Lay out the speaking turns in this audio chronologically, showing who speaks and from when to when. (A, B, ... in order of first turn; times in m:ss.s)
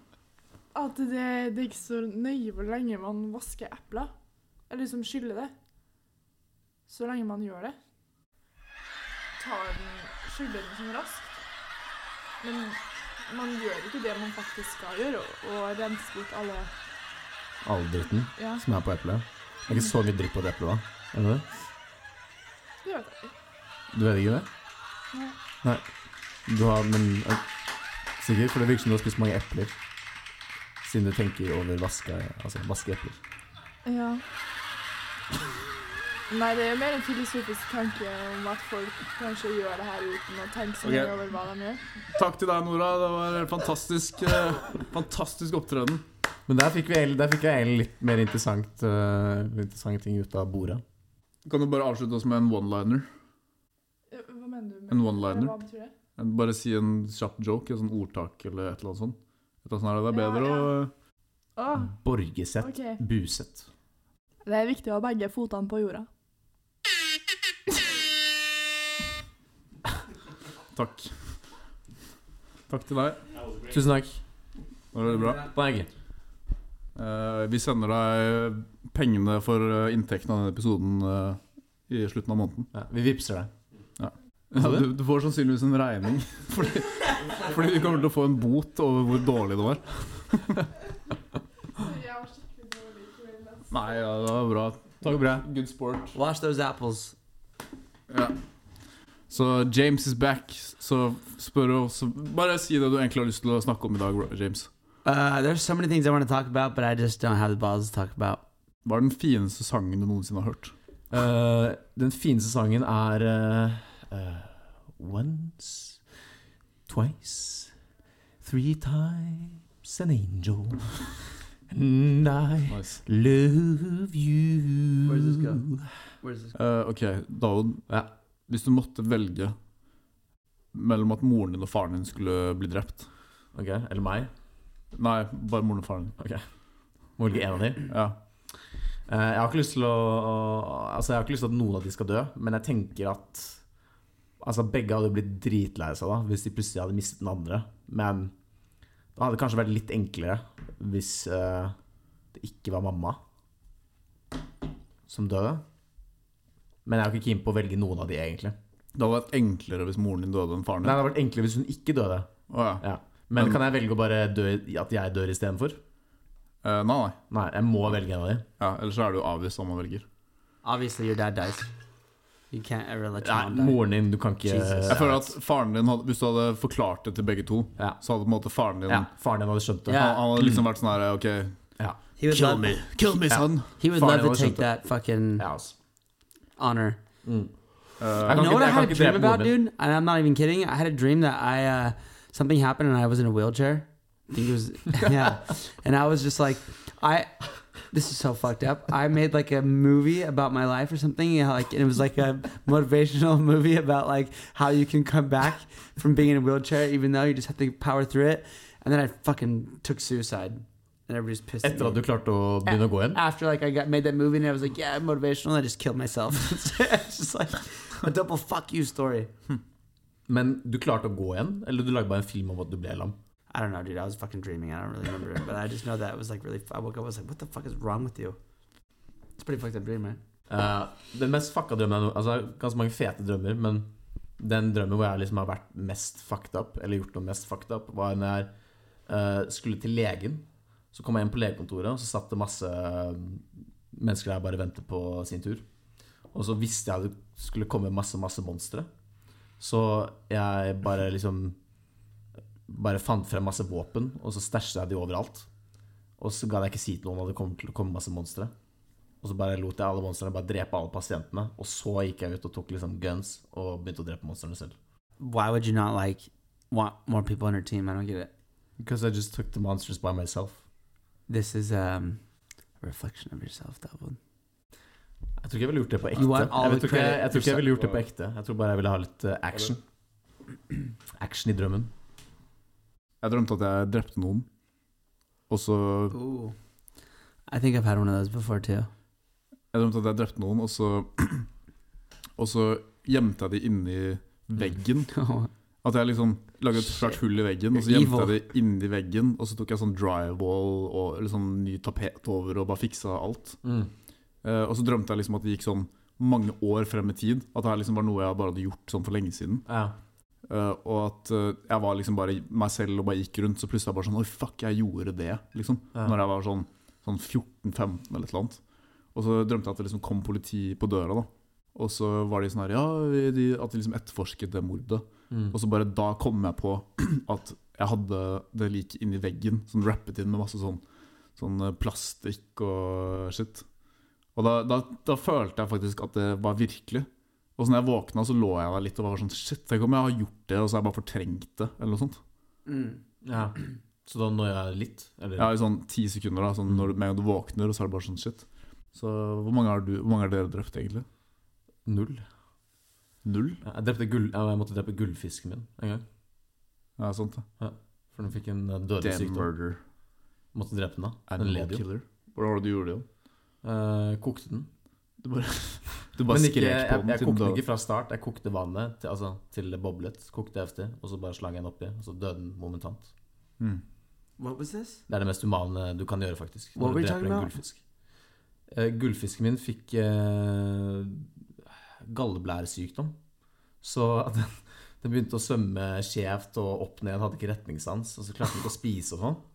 0:00.7-0:04.1 A
0:04.7-0:05.5 A
0:06.9-0:07.8 A
0:09.4-0:11.4 A
0:12.4-0:16.7 A
0:17.6-0:21.4 B
0:18.4-0:18.6 A
0:22.8-0:23.3 A
0:23.9-0:24.5 B
0:25.6-0:25.9 B
0:26.5-0:27.4 B
0:28.2-0:29.8 B
0:30.8-0:33.2 B
0:33.8-0:34.2 A
0:36.3-0:41.8 A
0:40.8-0:41.1 C
0:42.1-0:46.0 C
0:46.5-0:50.8 B
0:51.4-0:53.1 C
0:54.1-0:55.9 A
0:54.9-0:55.6 C
0:56.2-1:00.9 C
1:00.1-1:00.7 A
1:01.6-1:01.9 A
1:01.9-1:03.7 B
1:02.6-1:03.0 A
1:04.4-1:06.1 A
1:10.7-1:11.2 C
1:12.7-1:13.2 C
1:13.7-1:14.2 B
1:14.9-1:15.5 C
1:15.4-1:15.9 B
1:17.0-1:22.7 C
1:22.7-1:23.5 B
1:24.0-1:30.6 C
1:24.6-1:24.9 B
1:31.8-1:33.8 A
1:33.7-1:36.2 C
1:35.0-1:35.4 B
1:36.1-1:37.2 D
1:38.1-1:38.4 C
1:39.3-1:44.7 C
1:45.0-1:48.4 D
1:48.8-1:50.7 C
1:51.1-1:56.0 B
1:56.9-1:57.7 B
1:58.4-2:01.1 B
2:01.7-2:05.8 B
2:02.7-2:03.0 C
2:05.1-2:05.6 D
2:06.2-2:06.6 D
2:06.6-2:07.8 C
2:08.5-2:09.6 C
2:10.7-2:13.1 C
2:13.5-2:14.3 B
2:14.9-2:16.2 C
2:16.2-2:16.4 B
2:17.2-2:17.9 B
2:17.9-2:18.2 C
2:19.1-2:23.6 B
2:24.4-2:28.3 B
2:29.2-2:31.8 B
2:32.3-2:33.2 B
2:35.1-2:35.6 B
2:36.8-2:38.6 B
2:39.0-2:41.0 C
2:40.8-2:45.8 B
2:42.5-2:42.8 C
2:46.6-2:47.2 C
2:47.3-2:48.5 B
2:48.6-2:50.0 C
2:50.6-2:51.7 D
2:52.5-2:53.8 D
2:53.2-2:55.3 B
2:54.4-2:55.0 D
2:54.9-2:59.1 C
2:58.9-3:00.7 B
2:59.9-3:00.2 D
2:59.9-3:01.6 C
3:02.2-3:02.8 D
3:02.3-3:03.7 C
3:03.3-3:04.8 B
3:03.8-3:05.5 D
3:05.4-3:05.7 B
3:06.6-3:07.0 D
3:07.2-3:09.5 B
3:08.0-3:08.6 C
3:08.3-3:32.0 D
3:31.6-3:33.2 B
3:32.6-3:39.3 D
3:40.3-3:43.2 B
3:43.5-3:48.4 D
3:49.4-3:50.2 D
3:50.5-3:53.9 B
3:54.4-3:58.5 B
3:59.1-4:05.6 B
4:06.3-4:08.9 B
4:09.6-4:11.6 B
4:12.7-4:15.5 B
4:16.2-4:18.5 B
4:19.2-4:24.8 B
4:25.2-4:28.3 D
4:28.8-4:30.6 B
4:31.3-4:32.2 D
4:32.8-4:34.2 D
4:35.4-4:39.8 B
4:36.2-4:37.8 D
4:41.2-4:41.9 B
4:43.2-4:44.5 C
4:45.5-4:46.2 C
4:46.1-4:46.6 D
4:47.5-4:48.9 D
4:49.7-4:51.5 C
4:52.4-4:55.1 C
4:55.1-4:55.5 D
4:55.8-5:03.6 C
4:57.7-4:58.4 D
5:03.6-5:03.9 B
5:04.4-5:09.7 C
5:09.7-5:10.0 B
5:10.5-5:18.6 C
5:19.1-5:30.8 C
5:31.4-5:33.7 C
5:34.4-5:42.2 C
5:42.7-5:43.0 D
5:43.2-5:45.5 B
5:45.4-5:51.1 C
5:51.9-5:52.2 B
5:53.2-5:53.6 C
5:53.6-5:56.0 B
5:57.0-5:57.5 C
5:57.6-5:59.5 B
5:59.0-5:59.8 C
6:00.5-6:01.8 B
6:01.3-6:03.1 C
6:03.6-6:04.7 B
6:05.2-6:07.6 C
6:06.3-6:13.1 B
6:14.4-6:15.0 D
6:15.1-6:17.8 B
6:16.8-6:17.5 D
6:18.7-6:21.3 B
6:22.0-6:23.2 B
6:23.8-6:29.4 B